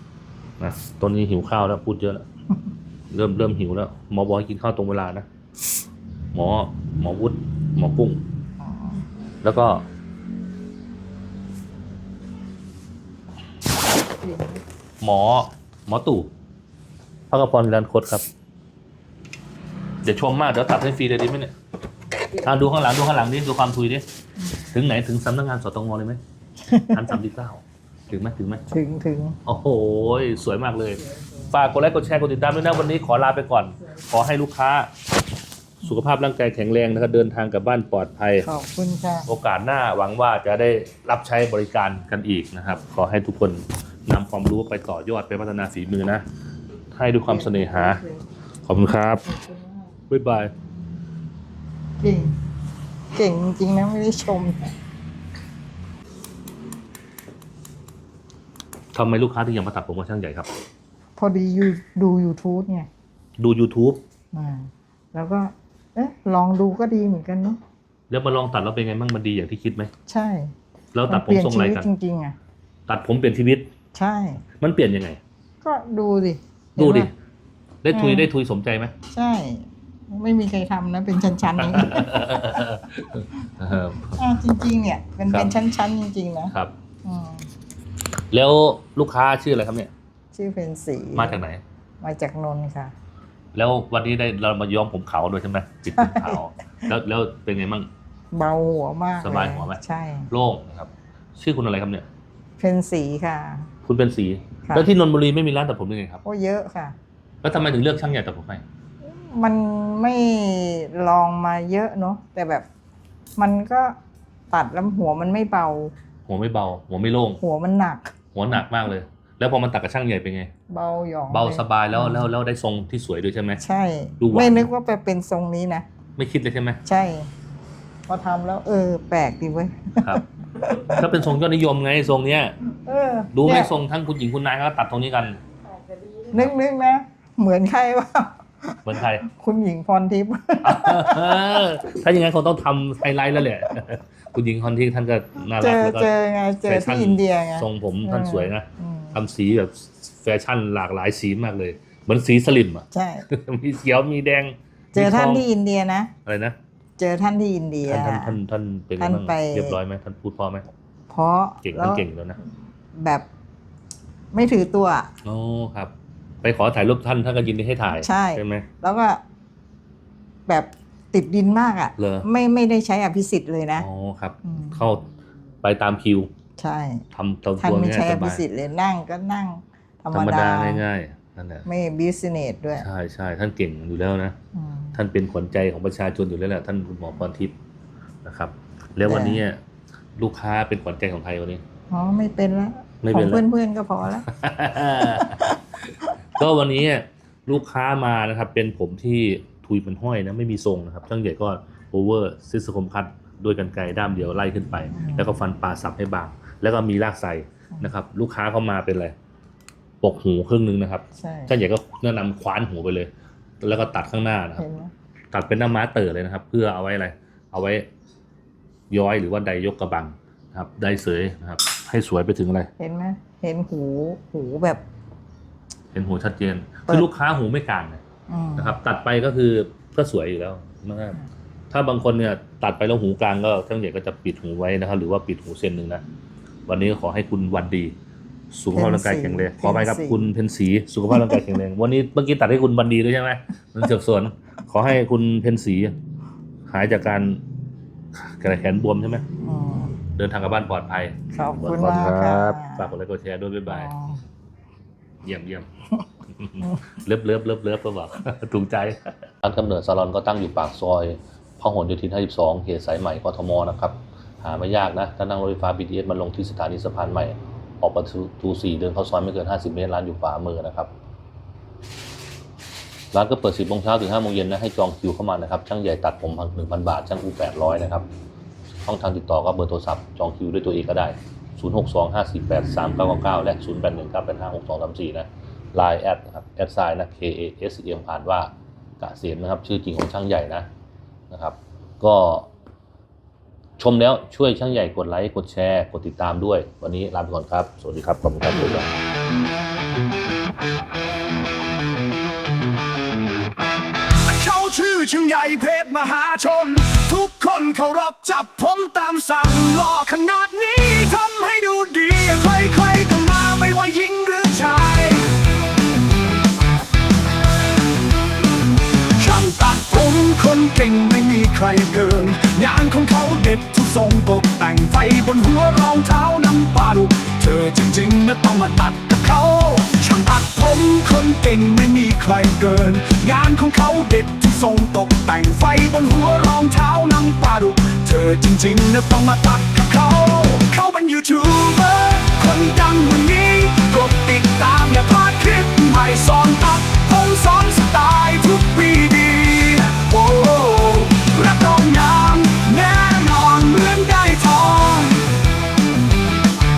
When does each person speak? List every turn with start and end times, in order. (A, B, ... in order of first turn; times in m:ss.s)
0:00.6-0:02.2 A
0:03.1-0:05.3 A
0:06.3-0:08.2 A
0:08.6-0:09.1 B
0:09.4-0:09.9 A
0:14.0-0:14.6 B
0:15.0-0:16.3 A
0:17.3-0:18.3 A
0:20.0-0:21.5 A
0:22.4-0:24.0 A
0:24.4-0:24.8 B
0:24.7-0:26.2 A
0:26.6-0:27.2 B
0:26.9-0:28.6 A
0:28.7-0:29.4 B
0:29.4-0:34.9 A
0:31.0-0:31.5 B
0:35.8-0:38.5 A
0:38.4-0:39.3 B
0:39.3-0:46.2 A
0:46.9-0:48.0 A
0:47.3-0:48.3 B
0:48.7-0:49.2 A
0:49.2-0:50.0 B
0:50.1-0:50.5 A
0:52.0-0:52.4 B
0:53.1-0:54.8 B
0:58.9-1:00.5 A
1:01.2-1:02.9 B
1:03.4-1:04.0 A
1:04.3-1:07.6 B
1:08.1-1:09.9 A
1:10.1-1:10.6 B
1:10.9-1:11.9 A
1:11.1-1:12.4 B
1:12.9-1:13.7 A
1:13.9-1:14.4 B
1:14.6-1:15.2 A
1:15.6-1:17.1 B
1:16.8-1:17.1 A
1:17.8-1:18.9 A
1:17.9-1:18.3 B
1:19.1-1:22.7 B
1:21.6-1:24.2 A
1:24.1-1:26.5 B
1:25.3-1:25.5 A
1:27.0-1:27.5 B
1:28.3-1:29.9 A
1:30.3-1:31.4 B
1:31.2-1:31.6 A
1:32.0-1:32.9 B
1:33.6-1:37.9 A
1:36.0-1:36.4 B
1:38.3-1:40.3 B
1:39.2-1:42.1 A
1:42.6-1:43.7 B
1:43.8-1:46.2 A
1:46.2-1:47.0 B
1:47.4-1:48.6 A
1:49.0-1:52.7 B
1:53.4-1:54.0 B
1:54.5-1:55.9 B
1:56.3-1:57.4 A
1:57.4-1:58.1 B
1:58.4-2:00.5 A
2:00.7-2:02.3 B
2:01.3-2:03.6 A
2:03.6-2:05.9 B
2:04.2-2:04.7 A
2:06.2-2:06.8 A
2:06.8-2:07.3 B
2:08.1-2:11.3 B
2:10.0-2:12.6 A
2:12.6-2:13.7 B
2:13.3-2:15.4 A
2:15.7-2:21.7 B
2:18.8-2:19.2 A
2:20.6-2:26.1 A
2:25.5-2:29.2 B
2:26.6-2:35.4 A
2:32.9-2:33.3 B
2:34.9-2:36.1 B
2:36.2-2:36.6 A
2:37.0-2:38.4 B
2:37.8-2:40.7 A
2:39.0-2:39.8 B
2:41.1-2:42.1 B
2:41.6-2:42.4 A
2:42.9-2:43.3 B
2:44.3-2:45.1 B
2:45.2-2:48.7 A
2:48.0-2:49.2 B
2:50.5-2:53.9 B
2:52.0-2:52.3 A
2:53.8-2:55.1 A
2:54.4-2:54.9 B
2:55.6-2:56.3 A
2:56.6-2:57.1 B
2:57.1-2:58.4 A
2:57.6-3:00.8 B
3:00.1-3:01.7 A
3:01.7-3:02.9 B
3:02.8-3:04.4 A
3:04.5-3:05.0 B
3:04.9-3:07.6 A
3:08.2-3:09.6 A
3:09.1-3:09.4 B
3:10.2-3:11.6 A
3:11.9-3:14.3 B
3:13.0-3:13.4 A
3:14.2-3:29.2 A
3:24.9-3:25.3 B
3:30.0-3:34.6 A
3:31.2-3:31.5 B
3:34.6-3:34.9 B
3:35.3-3:37.9 A
3:38.9-3:42.7 A
3:42.8-3:44.8 B
3:45.9-3:48.0 A
3:48.3-3:48.8 B
3:48.6-3:56.0 A
3:56.7-3:58.0 A
3:58.5-4:06.0 A
3:58.7-4:00.3 B
4:01.1-4:01.5 B
4:06.7-4:07.4 A
4:08.1-4:09.2 A
4:09.4-4:10.0 B
4:10.2-4:13.9 A
4:11.3-4:13.0 B
4:13.7-4:14.2 B
4:15.2-4:15.7 A
4:16.3-4:30.9 A
4:33.1-4:38.1 A
4:38.8-4:50.7 A
4:51.3-4:52.5 A
4:53.8-4:58.9 A
5:04.2-5:15.3 C
5:19.2-5:55.3 C